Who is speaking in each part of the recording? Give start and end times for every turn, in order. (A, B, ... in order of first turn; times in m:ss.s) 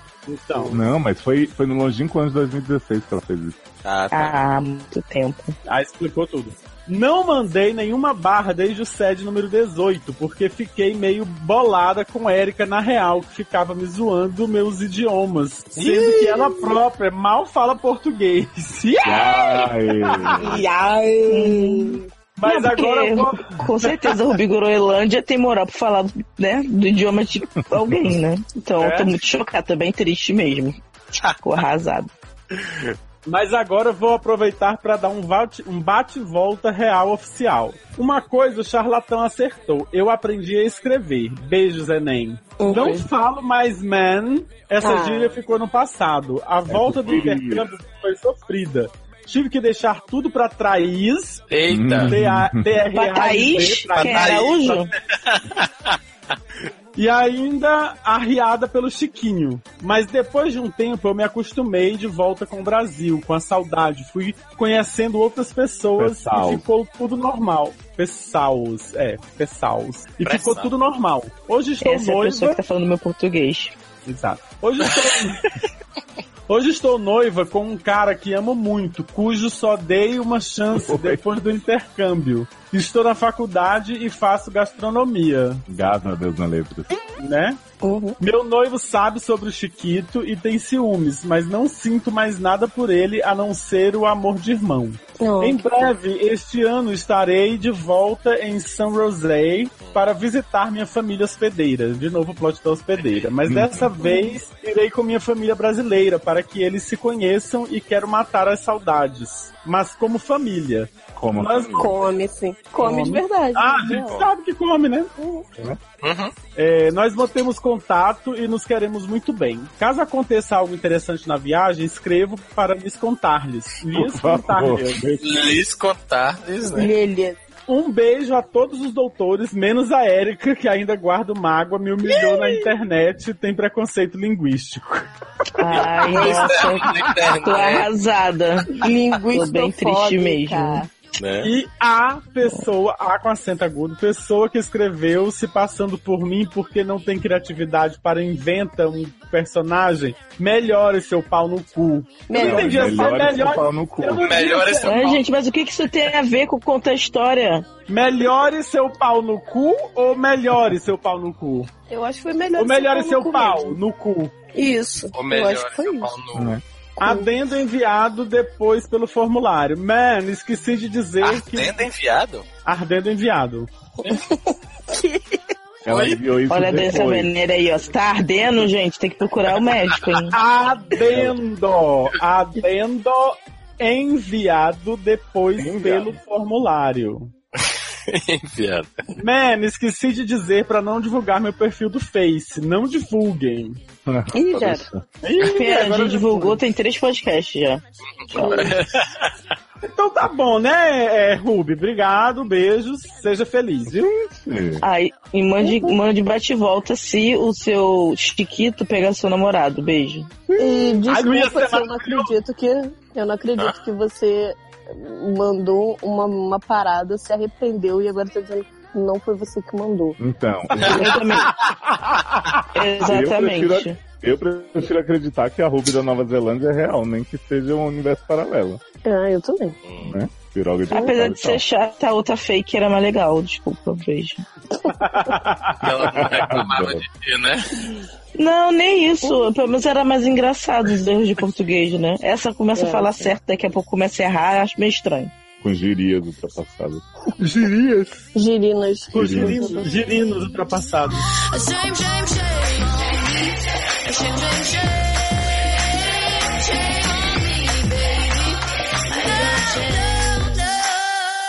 0:00.3-0:00.8 A
0:00.7-0:03.6 B
0:03.8-0:04.4 C
0:04.1-0:05.6 D
0:05.7-0:20.4 A
0:15.8-0:16.8 E
0:19.0-0:20.6 B
0:20.4-0:22.1 E
0:21.3-0:30.8 D
0:22.4-0:24.2 A
0:27.6-0:28.2 B
0:28.8-0:29.1 A
0:31.4-0:32.1 D
0:32.6-0:32.9 C
0:33.3-0:51.5 A
0:42.6-0:43.1 E
0:44.8-0:45.4 E
0:46.7-0:47.7 B
0:51.5-0:52.2 C
0:51.7-0:52.7 B
0:52.0-0:54.8 A
0:52.9-0:54.9 D
0:54.0-0:56.0 C
0:57.0-1:12.6 A
1:06.0-1:06.6 B
1:10.2-1:10.7 C
1:11.8-1:13.8 D
1:14.1-1:15.4 A
1:14.8-1:15.5 C
1:16.5-1:25.6 A
1:20.7-1:21.2 B
1:25.7-1:27.0 B
1:27.2-1:27.6 A
1:27.8-1:28.2 E
1:28.2-1:51.9 A
1:35.2-1:35.9 E
1:43.0-1:43.3 C
1:43.5-1:43.9 B
1:44.0-1:44.4 E
1:51.2-1:52.0 B
1:51.7-1:54.3 E
1:52.8-1:55.1 A
1:55.2-1:55.5 E
1:56.0-1:56.3 C
1:56.6-2:05.1 A
2:03.9-2:05.6 B
2:05.2-2:06.9 C
2:06.7-2:07.4 E
2:07.7-2:15.1 A
2:12.1-2:12.7 E
2:15.6-2:20.8 D
2:15.7-2:16.3 A
2:15.7-2:17.9 C
2:18.7-2:20.9 E
2:21.2-2:21.5 C
2:21.4-2:35.2 A
2:32.3-2:33.3 E
2:32.4-2:34.4 B
2:34.2-2:35.3 C
2:34.8-2:37.7 D
2:37.9-2:41.7 A
2:41.9-2:43.8 E
2:42.6-2:44.4 A
2:44.5-2:46.2 E
2:45.1-2:46.6 C
2:46.3-2:46.6 B
2:47.0-2:47.3 E
2:47.0-2:51.8 A
2:51.2-2:52.5 C
2:52.6-2:53.7 A
2:54.0-2:55.4 E
2:55.8-2:57.3 B
2:55.9-2:56.2 C
2:56.5-3:00.4 D
3:00.3-3:07.3 A
3:01.0-3:01.4 B
3:05.6-3:06.2 B
3:07.6-3:09.0 C
3:09.2-3:13.8 A
3:14.1-3:15.0 B
3:14.3-3:14.9 E
3:15.2-3:16.6 A
3:15.4-3:17.8 D
3:18.2-3:19.3 C
3:18.3-3:18.7 D
3:18.3-3:18.7 E
3:19.8-3:24.0 A
3:23.9-3:24.8 B
3:24.8-3:30.3 D
3:25.6-3:26.0 E
3:30.5-3:32.4 A
3:30.6-3:40.2 E
3:40.2-3:41.2 B
3:40.8-3:41.5 D
3:41.6-3:42.6 A
3:42.7-3:44.0 D
3:43.0-3:48.8 B
3:49.0-3:49.8 E
3:49.8-3:50.2 C
3:50.0-3:51.6 B
3:50.9-3:54.4 D
3:54.8-3:55.4 E
3:55.1-3:55.9 A
3:55.8-3:57.7 C
3:56.0-3:57.0 B
3:58.4-4:05.3 D
3:59.2-3:59.7 E
4:02.8-4:03.3 E
4:05.6-4:07.0 B
4:07.4-4:08.2 A
4:08.4-4:09.9 E
4:09.1-4:11.2 A
4:09.1-4:09.8 B
4:11.3-4:20.9 F